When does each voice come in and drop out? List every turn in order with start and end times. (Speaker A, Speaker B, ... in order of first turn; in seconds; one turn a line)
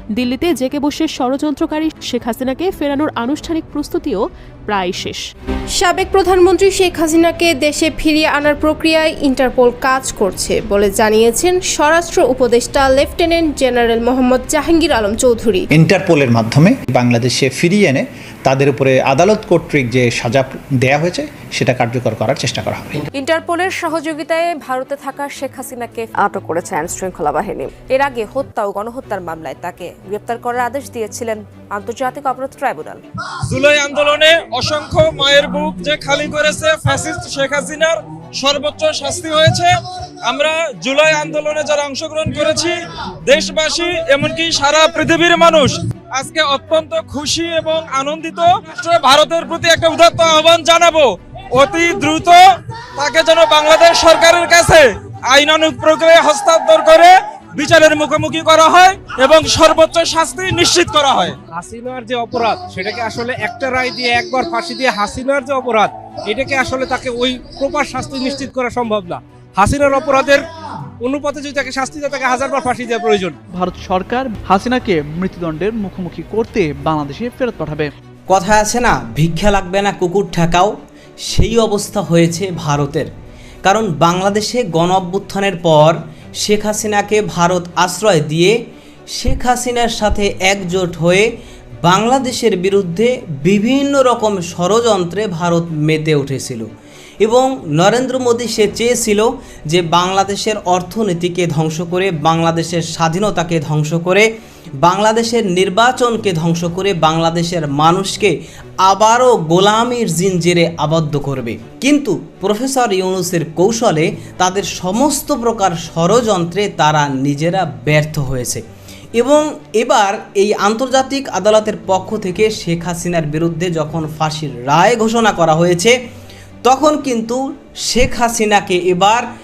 Speaker A: 0.1-5.2
Speaker B: 5.8-15.7
Speaker C: 15.8-22.9
Speaker D: 23.1-33.0
Speaker E: 33.5-52.4
Speaker E: 53.0-61.4
Speaker F: 61.5-70.5
Speaker F: 71.0-73.4
Speaker G: 73.6-77.9
Speaker H: 78.3-80.7
Speaker H: 81.3-83.1
Speaker H: 83.7-88.5
Speaker H: 89.2-91.3
Speaker H: 91.8-96.7
Speaker H: 97.2-104.3
Speaker H: 104.8-118.6
Speaker H: 119.2-126.0
Speaker H: 126.7-129.2